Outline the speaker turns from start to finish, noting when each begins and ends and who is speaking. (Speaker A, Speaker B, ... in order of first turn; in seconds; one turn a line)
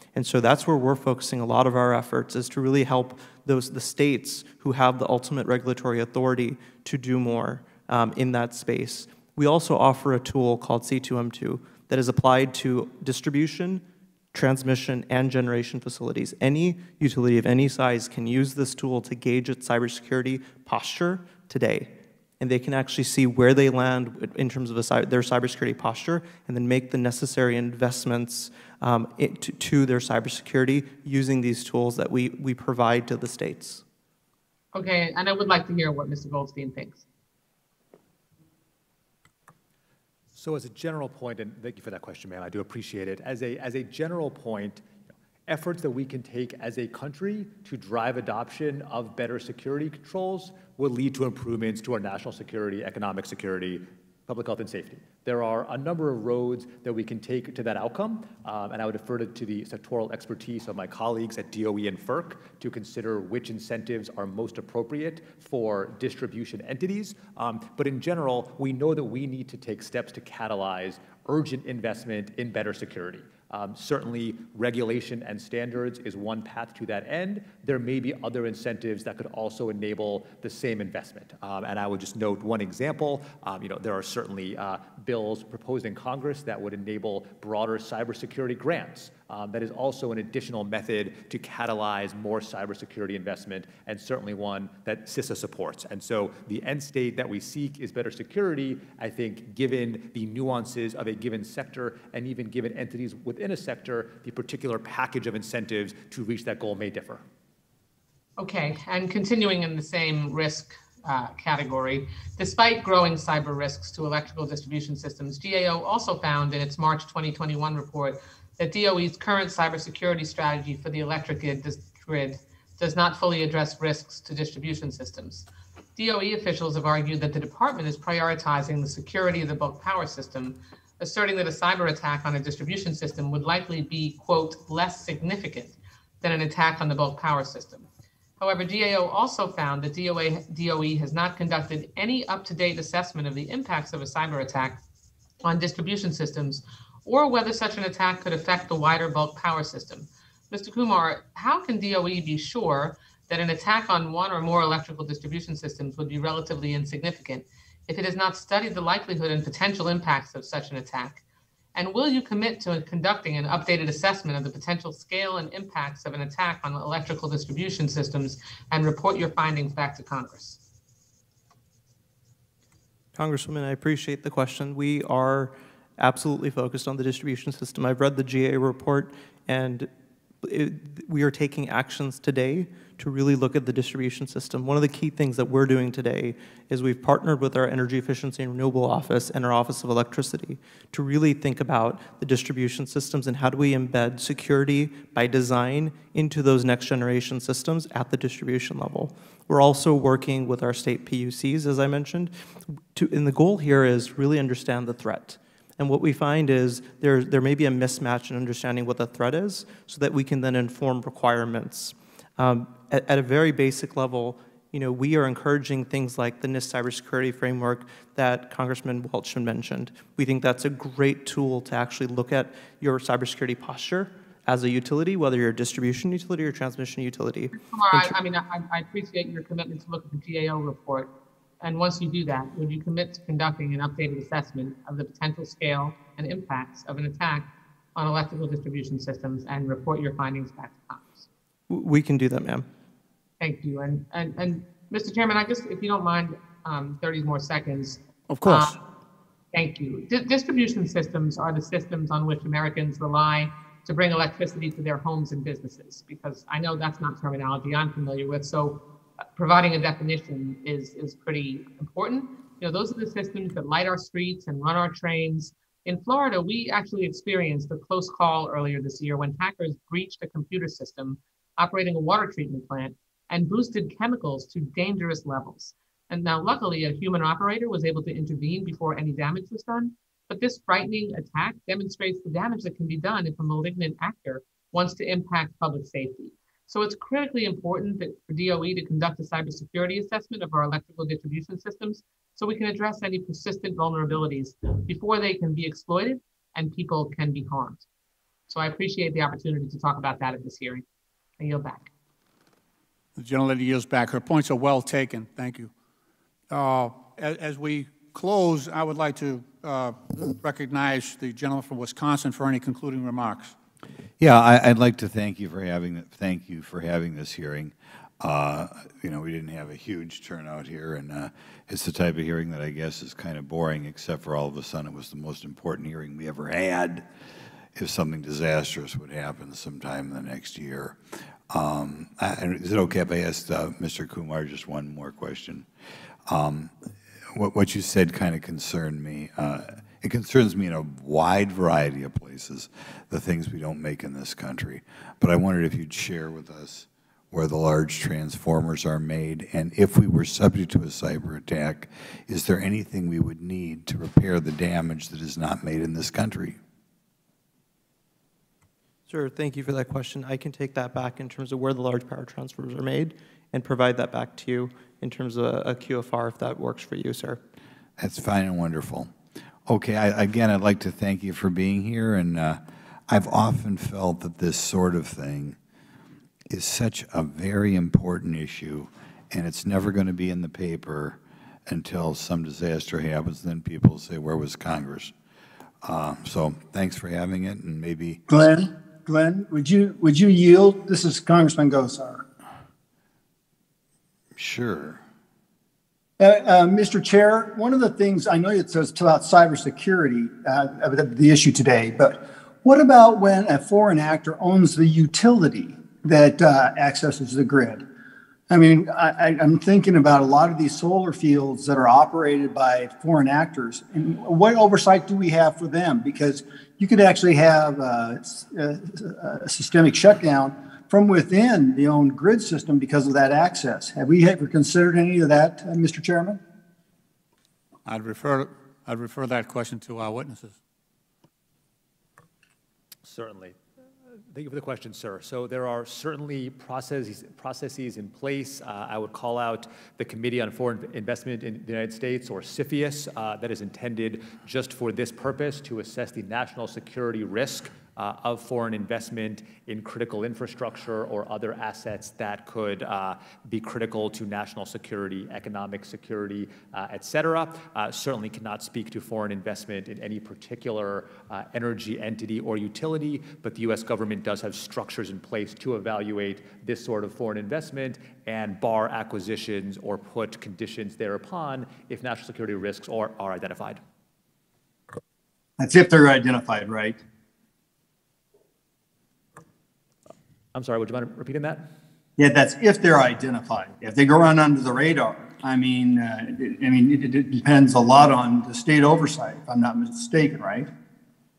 Speaker A: 0.1-33.8
Speaker B: 34.7-37.0
Speaker C: 40.3-44.8
Speaker C: 45.5-107.2
Speaker B: 108.4-137.8
Speaker B: 138.4-144.8
Speaker B: 145.4-161.2
Speaker B: 161.7-170.6
Speaker A: 173.2-179.9
Speaker A: 180.4-228.1
Speaker B: 227.6-231.1
Speaker B: 231.6-241.2
Speaker A: 241.7-242.7
Speaker B: 243.4-248.8
Speaker D: 248.3-248.8
Speaker B: 249.5-258.8
Speaker B: 259.3-297.8
Speaker B: 298.5-300.8
Speaker B: 301.4-301.9
Speaker D: 303.1-305.7
Speaker D: 306.5-313.5
Speaker E: 314.2-327.1
Speaker E: 327.7-331.0
Speaker E: 331.5-335.7
Speaker E: 336.3-336.7
Speaker E: 337.3-356.6
Speaker A: 359.1-367.4
Speaker E: 368.0-369.1
Speaker E: 369.6-375.6
Speaker E: 376.5-385.1
Speaker E: 385.8-388.2
Speaker F: 388.3-392.2
Speaker E: 394.4-395.0
Speaker F: 396.2-407.8
Speaker F: 408.5-426.4
Speaker D: 427.9-430.6
Speaker C: 433.0-433.6
Speaker C: 434.3-473.8
Speaker F: 475.6-477.0
Speaker C: 480.5-481.6
Speaker F: 482.2-490.7